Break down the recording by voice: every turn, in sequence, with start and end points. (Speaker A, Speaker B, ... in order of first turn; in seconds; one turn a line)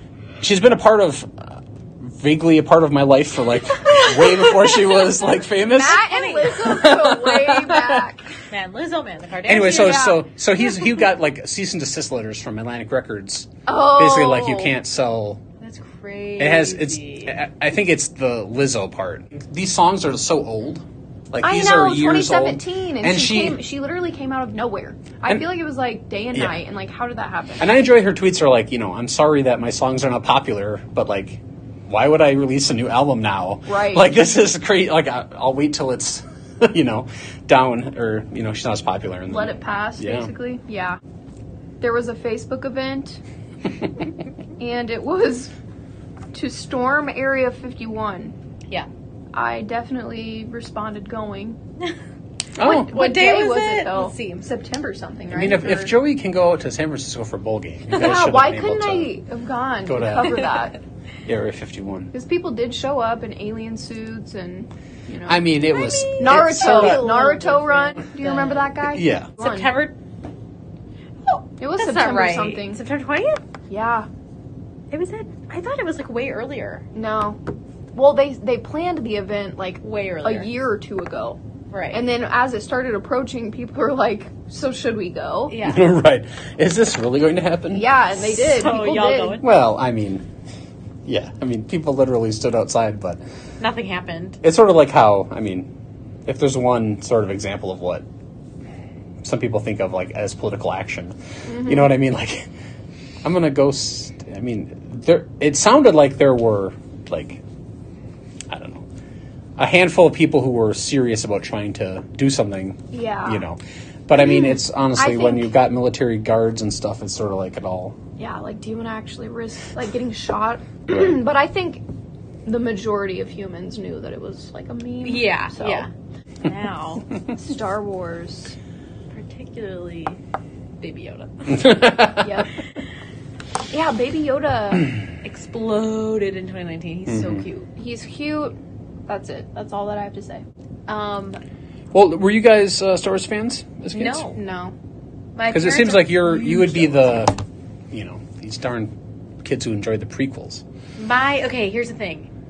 Speaker A: 0.4-8.1
Speaker B: 3.9-4.9
Speaker B: 5.7-8.3
Speaker C: 5.9-6.6
Speaker C: 8.5-10.1
Speaker A: 9.4-15.4
Speaker B: 9.6-10.9
Speaker B: 13.7-14.8
Speaker C: 15.6-17.4
Speaker A: 16.4-23.6
Speaker B: 21.4-27.7
Speaker A: 27.6-40.3
Speaker B: 33.7-34.2
Speaker B: 39.3-41.0
Speaker B: 41.8-43.2
Speaker B: 44.6-45.5
Speaker B: 46.3-48.3
Speaker B: 49.3-51.6
Speaker A: 52.6-52.9
Speaker B: 52.6-55.9
Speaker C: 52.6-54.5
Speaker A: 55.3-59.1
Speaker B: 57.9-60.8
Speaker A: 59.9-60.5
Speaker A: 61.3-62.1
Speaker B: 62.1-65.5
Speaker A: 65.3-67.1
Speaker C: 65.7-68.8
Speaker B: 66.2-69.7
Speaker A: 68.9-69.3
Speaker C: 69.4-70.0
Speaker C: 71.3-73.4
Speaker B: 71.6-72.8
Speaker B: 73.7-74.1
Speaker C: 74.9-76.8
Speaker B: 77.0-77.4
Speaker B: 77.9-81.4
Speaker C: 79.8-80.5
Speaker C: 81.7-82.0
Speaker B: 81.9-85.5
Speaker C: 85.5-85.9
Speaker A: 85.6-87.9
Speaker B: 87.7-89.4
Speaker C: 88.2-89.5
Speaker A: 89.4-90.3
Speaker A: 91.1-93.2
Speaker C: 93.6-94.4
Speaker A: 94.4-95.7
Speaker A: 96.3-98.0
Speaker A: 99.2-102.5
Speaker B: 101.5-101.9
Speaker A: 103.2-107.4
Speaker A: 108.5-108.9
Speaker A: 109.6-118.0
Speaker B: 112.9-113.5
Speaker B: 114.2-115.5
Speaker B: 118.2-121.8
Speaker B: 122.5-125.9
Speaker C: 125.0-125.9
Speaker C: 126.4-127.1
Speaker B: 127.3-128.6
Speaker C: 129.1-130.2
Speaker C: 130.8-131.8
Speaker A: 131.5-132.3
Speaker B: 132.2-132.5
Speaker B: 133.7-134.9
Speaker C: 135.2-137.7
Speaker A: 137.1-137.4
Speaker B: 137.8-140.4
Speaker C: 140.9-141.4
Speaker A: 141.9-144.2
Speaker C: 143.9-144.4
Speaker B: 144.3-144.7
Speaker C: 145.4-147.1
Speaker A: 145.5-147.3
Speaker A: 147.9-150.6
Speaker C: 151.0-152.3